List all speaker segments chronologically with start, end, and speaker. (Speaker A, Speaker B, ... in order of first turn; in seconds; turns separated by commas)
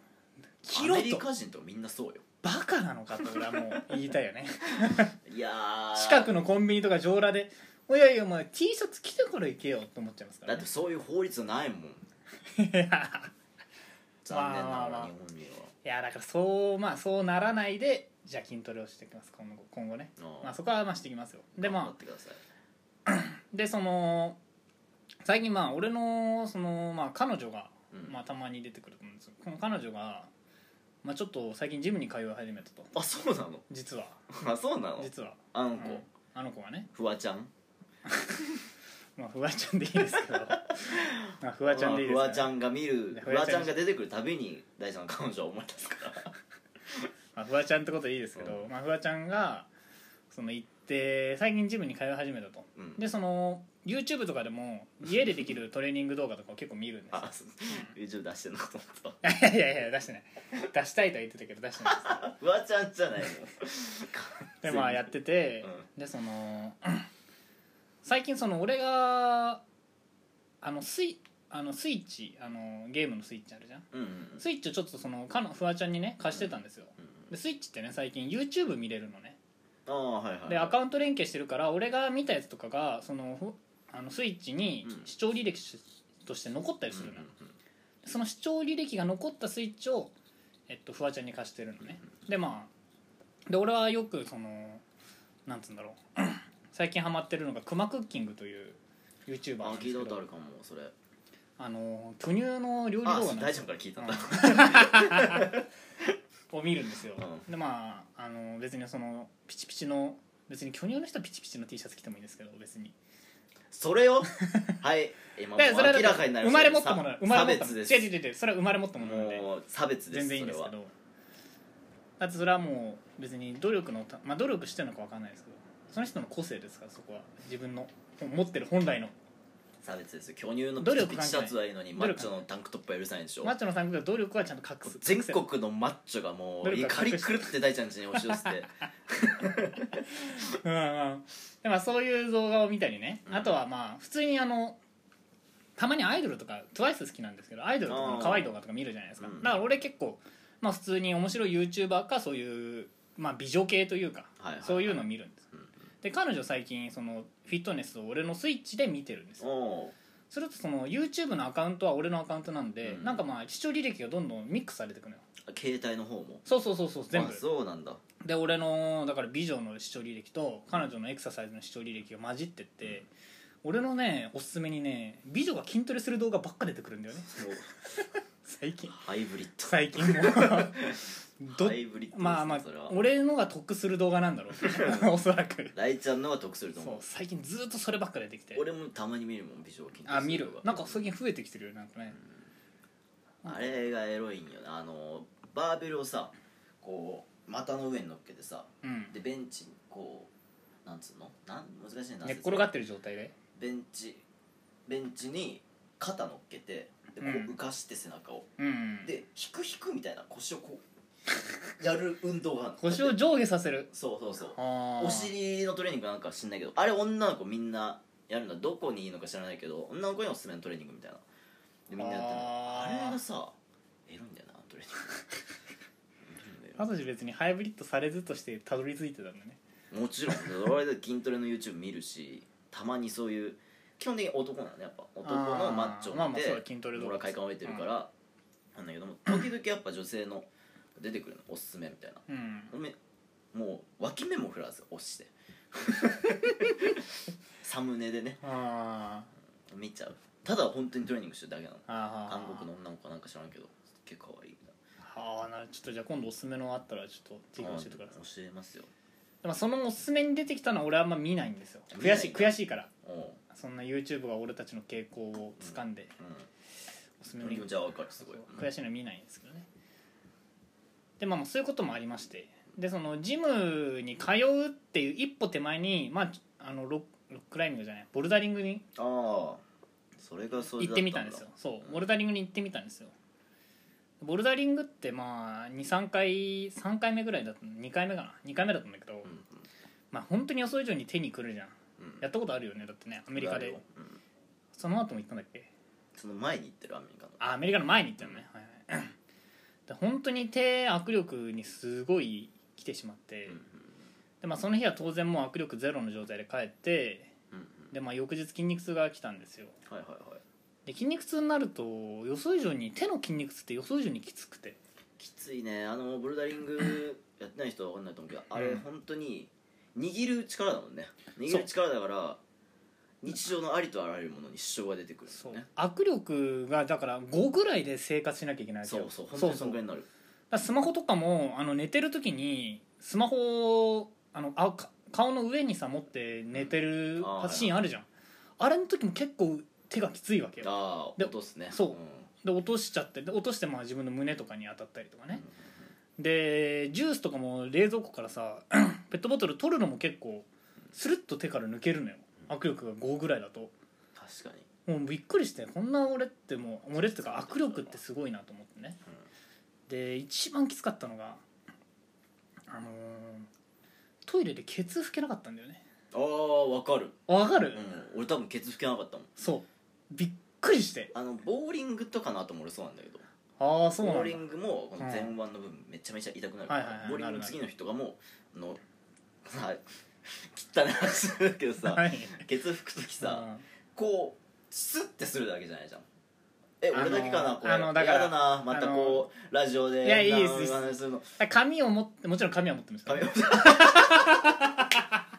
Speaker A: 0.6-1.3, Speaker B: 0.7-2.2, Speaker A: 2.4-5.1, Speaker B: 4.9-6.3, Speaker A: 5.9-10.7, Speaker B: 10.4-12.1, Speaker A: 12.5-13.3, Speaker B: 14.2-15.7, Speaker A: 14.3-15.1, Speaker A: 15.8-21.9, Speaker B: 20.2-20.5, Speaker B: 21.6-22.4, Speaker A: 23.1-24.4, Speaker A: 25.2-30.3, Speaker A: 31.0-32.9, Speaker B: 32.9-33.6, Speaker A: 33.7-34.3, Speaker B: 34.3-36.0, Speaker A: 35.0-36.9, Speaker B: 36.9-37.5, Speaker A: 38.1-38.4, Speaker A: 39.2-42.5, Speaker B: 40.1-46.3, Speaker A: 43.1-43.8, Speaker A: 47.4-49.7, Speaker B: 48.4-48.6, Speaker A: 50.3-57.9, Speaker B: 57.1-59.2, Speaker A: 59.2-62.3, Speaker B: 61.8-65.8, Speaker A: 64.6-67.1, Speaker A: 68.0-69.6, Speaker A: 70.6-73.9, Speaker B: 73.9-74.4, Speaker A: 74.4-79.4, Speaker B: 79.8-80.8, Speaker A: 80.5-87.3, Speaker B: 86.9-87.5, Speaker A: 88.0-90.1, Speaker A: 90.7-92.7, Speaker A: 93.5-94.8, Speaker A: 95.5-100.2, Speaker B: 99.6-100.9, Speaker A: 101.6-105.6, Speaker B: 103.0-106.1, Speaker A: 106.5-113.0, Speaker B: 107.2-107.4, Speaker B: 113.7-118.1, Speaker A: 114.4-114.8, Speaker A: 115.5-119.5, Speaker B: 119.0-120.7, Speaker A: 120.1-120.9, Speaker A: 122.2-129.1, Speaker B: 129.8-133.5, Speaker A: 130.8-132.3, Speaker A: 133.4-135.4, Speaker B: 134.8-140.0, Speaker A: 136.6-137.5, Speaker A: 139.9-144.8, Speaker B: 143.3-143.6, Speaker A: 145.8-155.5, Speaker B: 147.9-148.5, Speaker B: 149.2-149.6, Speaker B: 154.4-155.7, Speaker A: 156.0-159.4, Speaker B: 159.4-159.9, Speaker A: 160.3-165.2, Speaker B: 162.8-163.2, Speaker B: 165.4-166.4, Speaker A: 166.4-167.4, Speaker B: 167.1-168.0, Speaker A: 168.2-173.1, Speaker A: 173.6-179.0, Speaker B: 177.3-177.7, Speaker B: 178.9-183.0, Speaker A: 179.6-180.8, Speaker A: 181.4-185.7, Speaker B: 184.6-185.1, Speaker B: 185.7-187.0, Speaker A: 186.8-188.6, Speaker B: 188.5-191.1, Speaker A: 190.1-192.2, Speaker A: 193.4-193.7, Speaker B: 193.4-200.3, Speaker A: 198.8-199.1, Speaker B: 200.8-202.7, Speaker A: 202.2-203.3, Speaker B: 203.5-204.2, Speaker B: 204.9-208.5, Speaker A: 207.2-207.5, Speaker A: 208.6-209.1, Speaker B: 209.0-210.8, Speaker B: 211.8-213.2, Speaker A: 212.8-213.9, Speaker B: 213.9-221.2, Speaker A: 214.5-215.3, Speaker B: 221.9-223.6, Speaker A: 222.0-223.2, Speaker B: 224.1-225.1, Speaker B: 226.2-226.9, Speaker A: 226.8-229.6, Speaker B: 229.9-238.1, Speaker A: 235.2-237.8, Speaker B: 238.7-243.0, Speaker A: 242.3-242.7, Speaker B: 243.5-248.4, Speaker A: 248.4-249.3, Speaker B: 249.7-254.7, Speaker A: 251.9-252.7, Speaker A: 255.0-258.1, Speaker B: 257.6-258.9, Speaker A: 259.4-262.9, Speaker B: 261.9-263.4, Speaker A: 263.5-266.1, Speaker B: 265.6-266.5, Speaker A: 267.2-269.7, Speaker B: 267.4-268.6, Speaker A: 271.2-278.8, Speaker B: 278.9-279.6, Speaker B: 280.2-282.0, Speaker A: 280.7-283.1, Speaker A: 284.2-289.3, Speaker B: 289.2-289.6, Speaker A: 290.1-293.8, Speaker B: 292.0-292.2, Speaker B: 293.3-294.2, Speaker A: 294.8-295.7, Speaker B: 296.1-297.4, Speaker A: 297.4-299.1, Speaker A: 299.9-303.6, Speaker B: 303.5-303.9, Speaker A: 304.4-307.3, Speaker B: 307.5-307.9, Speaker A: 307.9-309.7, Speaker B: 309.9-310.4, Speaker A: 310.9-314.8, Speaker B: 315.2-322.4, Speaker A: 318.5-318.8, Speaker B: 323.2-325.7, Speaker A: 325.3-329.8, Speaker B: 328.8-330.1, Speaker A: 330.5-338.1, Speaker B: 336.5-337.8, Speaker A: 338.6-345.4, Speaker B: 340.6-342.2, Speaker B: 345.3-345.7, Speaker A: 346.2-353.7, Speaker B: 354.1-354.7, Speaker A: 354.9-359.0, Speaker B: 357.1-358.0, Speaker A: 359.9-361.4, Speaker A: 362.7-363.5, Speaker A: 364.2-365.8, Speaker B: 366.1-367.2, Speaker A: 367.3-368.0, Speaker B: 367.7-369.3, Speaker A: 369.4-371.1, Speaker B: 371.1-373.2, Speaker A: 373.6-374.4, Speaker B: 373.9-378.8, Speaker A: 375.0-375.3, Speaker A: 376.7-377.6, Speaker B: 379.4-386.1, Speaker A: 381.8-382.4, Speaker A: 383.2-383.6, Speaker B: 386.8-391.3, Speaker A: 386.9-389.2, Speaker A: 390.0-395.2, Speaker B: 393.1-394.5